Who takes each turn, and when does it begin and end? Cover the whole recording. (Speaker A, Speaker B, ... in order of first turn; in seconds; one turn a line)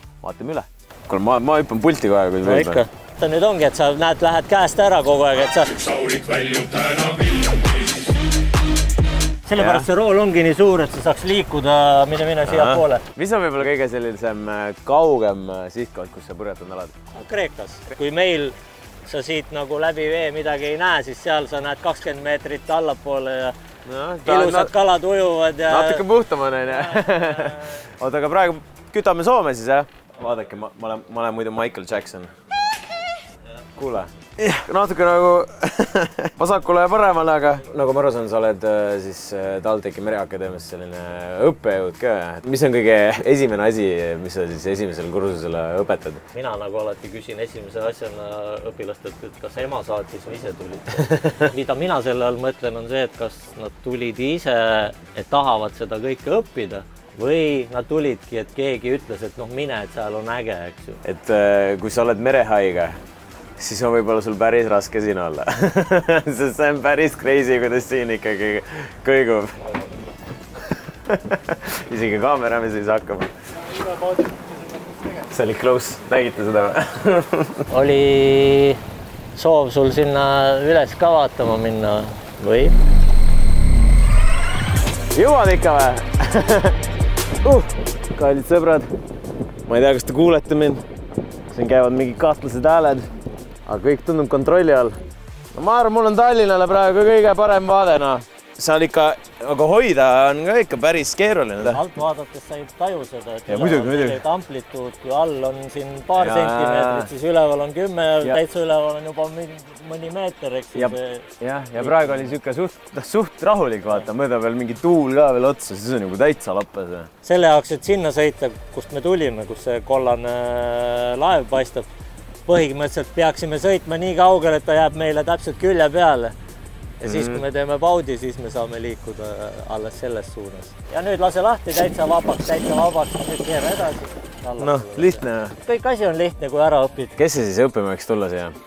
Speaker A: 0.2-2.9
Speaker B: 2.4-6.9
Speaker B: 9.4-13.0
Speaker A: 9.6-9.9
Speaker A: 12.4-16.9
Speaker B: 17.1-18.5
Speaker B: 19.1-23.6
Speaker A: 23.9-24.7
Speaker B: 24.2-26.1
Speaker A: 25.7-32.3
Speaker B: 26.6-27.8
Speaker A: 33.8-46.2
Speaker B: 46.3-61.0
Speaker A: 51.1-51.4
Speaker A: 61.0-63.0
Speaker A: 63.6-69.6
Speaker A: 71.1-73.3
Speaker A: 75.3-77.6
Speaker B: 77.7-78.8
Speaker B: 79.4-82.8
Speaker A: 85.1-86.8
Speaker A: 87.4-88.9
Speaker A: 89.7-90.8
Speaker A: 91.5-93.1
Speaker A: 93.7-95.0
Speaker A: 95.5-101.8
Speaker B: 101.6-112.4
Speaker A: 103.5-104.2
Speaker A: 106.2-107.1
Speaker A: 110.7-117.1
Speaker B: 117.2-121.9
Speaker B: 122.5-126.3
Speaker B: 127.0-137.2
Speaker A: 127.0-127.4
Speaker A: 134.6-135.6
Speaker A: 137.2-138.6